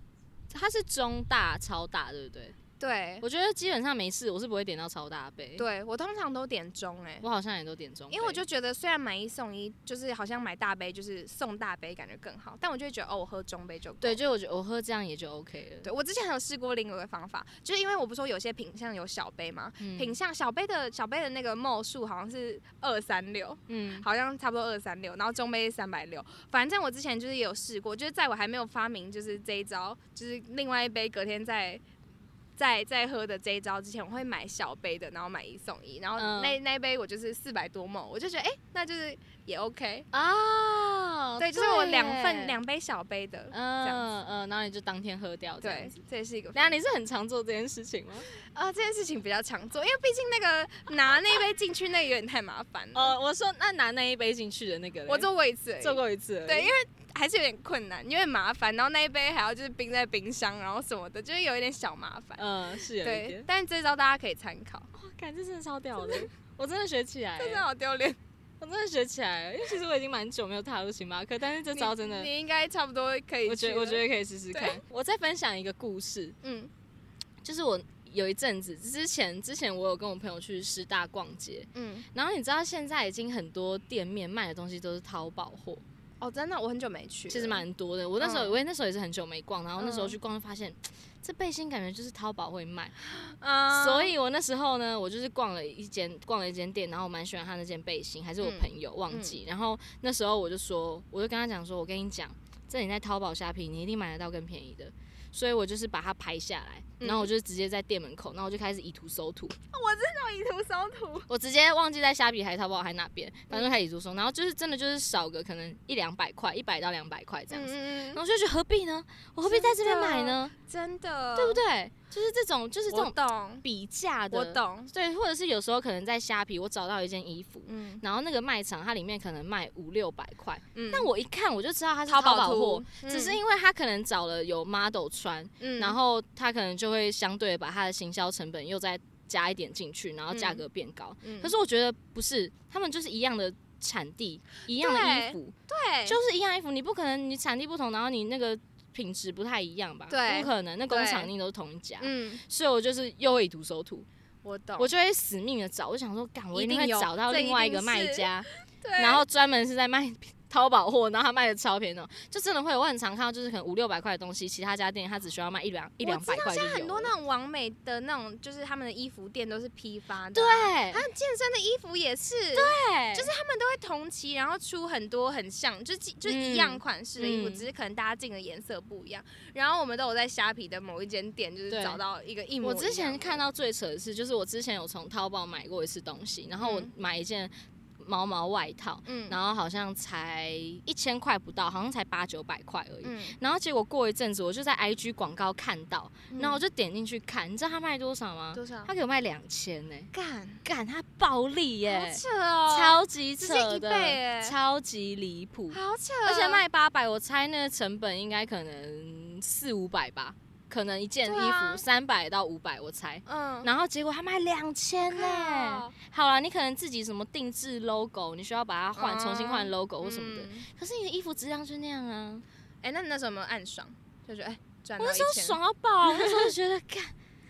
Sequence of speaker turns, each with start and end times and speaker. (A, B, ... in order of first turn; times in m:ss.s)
0:00.5-0:02.6 A
0:02.8-0:03.2 B
0:03.2-0:05.6 A
0:05.6-0:07.2 B
0:07.2-0:08.4 A
0:08.1-0:14.2 B
0:14.0-0:15.9 A
0:15.8-0:31.8 B
0:19.8-0:20.1 A
0:23.7-0:24.0 A
0:32.6-0:40.1 B
0:36.2-0:36.6 A
0:40.1-0:42.6 A
0:41.4-0:44.1 B
0:43.5-0:45.9 A
0:45.6-0:46.7 B
0:46.5-0:48.3 A
0:48.4-0:53.1 B
0:52.9-0:55.3 A
0:55.1-1:04.9 B
0:55.8-0:56.7 A
1:02.4-1:03.4 A
1:04.9-1:07.6 A
1:06.0-1:06.3 B
1:07.4-1:08.2 B
1:08.6-1:12.3 A
1:11.7-1:14.8 B
1:13.4-1:16.4 A
1:16.4-1:16.7 B
1:17.4-1:25.8 A
1:21.7-1:22.0 B
1:26.2-1:27.6 B
1:27.3-1:32.9 A
1:28.2-1:28.6 B
1:29.8-1:30.2 B
1:33.2-1:34.1 B
1:33.7-1:49.5 A
1:38.4-1:39.4 B
1:47.0-1:47.3 B
1:49.7-1:51.3 B
1:51.3-2:00.5 A
1:57.5-1:58.2 B
1:59.4-2:01.6 B
2:01.3-2:25.5 A
2:02.9-2:03.6 B
2:04.3-2:04.9 B
2:07.6-2:08.0 B
2:10.7-2:11.1 B
2:12.1-2:13.4 B
2:15.6-2:16.0 B
2:20.3-2:20.6 B
2:21.2-2:21.5 B
2:24.8-2:26.2 B
2:26.1-2:34.1 A
2:30.1-2:31.3 B
2:32.0-2:32.4 B
2:34.4-2:34.9 B
2:34.8-2:47.1 A
2:36.5-2:38.3 B
2:38.8-2:39.2 B
2:46.0-3:03.4 B
2:50.3-2:51.0 A
2:52.5-2:53.3 A
2:56.2-2:57.6 A
3:01.7-3:02.0 A
3:02.6-3:20.1 A
3:06.6-3:06.9 B
3:09.0-3:09.4 B
3:13.0-3:13.4 B
3:16.3-3:16.6 B
3:18.5-3:18.9 B
3:20.1-3:20.6 B
3:20.6-3:42.4 A
3:21.8-3:24.5 B
3:25.7-3:26.6 B
3:31.2-3:31.8 B
3:33.2-3:33.7 B
3:35.1-3:35.9 B
3:39.0-3:40.7 B
3:42.8-3:46.5 B
3:45.0-3:47.1 A